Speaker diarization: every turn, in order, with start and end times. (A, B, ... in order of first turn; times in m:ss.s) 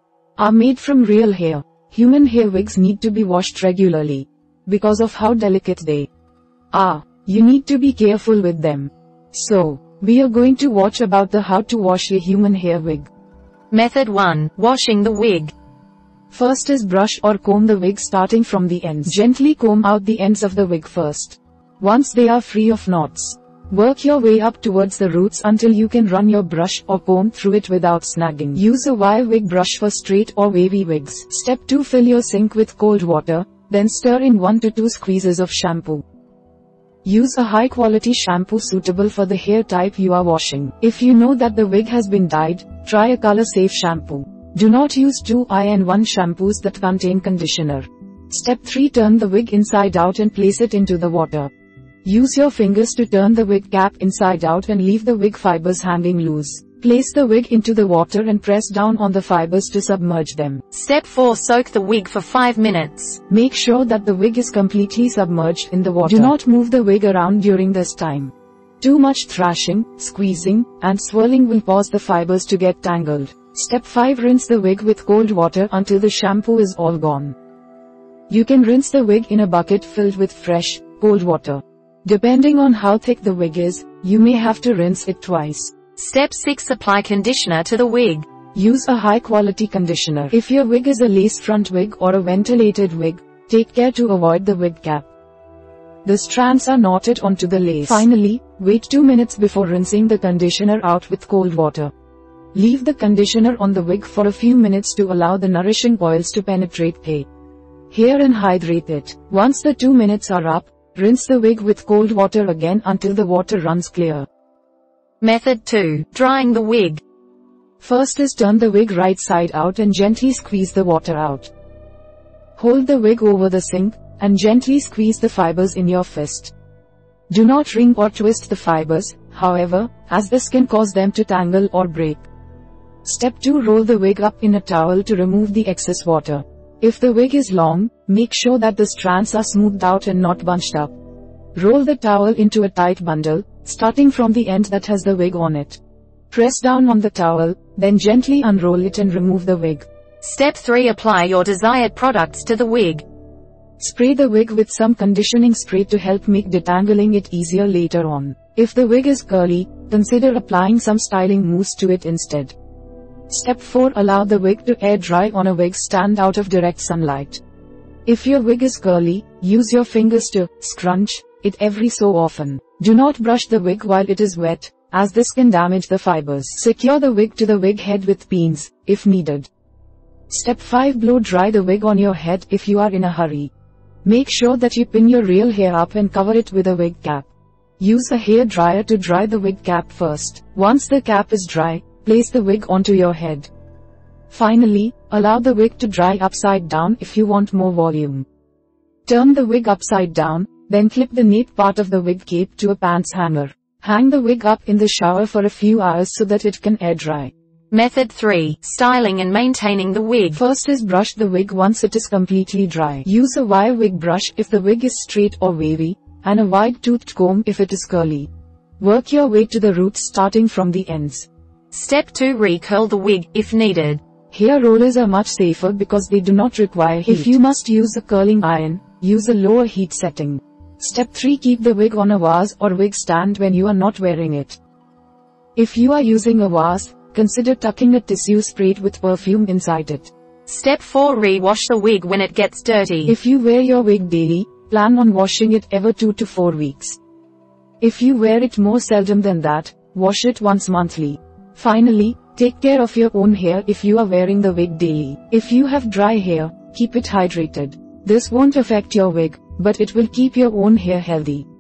0:00.4-0:06.1 A
0:06.7-0:13.1 A
0:13.7-0:15.5 B
0:16.3-0:36.0 A
0:37.0-0:51.5 A
0:52.0-1:00.6 A
1:00.7-1:03.2 B
1:03.3-1:17.4 A
1:18.3-1:25.8 A
1:26.0-1:28.3 B
1:28.5-1:35.1 A
1:36.0-1:41.9 A
1:42.5-1:47.3 A
1:47.9-1:54.3 A
1:55.2-1:57.0 B
1:57.8-2:01.5 A
2:02.6-2:06.5 A
2:07.3-2:12.2 A
2:13.0-2:20.9 A
2:21.6-2:25.8 A
2:26.3-2:29.9 A
2:30.2-2:33.0 B
2:33.8-2:42.6 A
2:43.3-2:47.4 A
2:48.1-2:59.5 A
3:00.3-3:03.5 A
3:04.0-3:13.5 A
3:14.3-3:18.3 A
3:19.1-3:27.3 A
3:27.7-3:30.4 B
3:30.3-3:38.3 A
3:38.8-3:41.3 A
3:41.7-3:44.0 B
3:44.3-3:54.6 A
3:55.6-4:00.1 A
4:00.5-4:03.2 B
4:03.1-4:07.0 A
4:07.8-4:21.5 A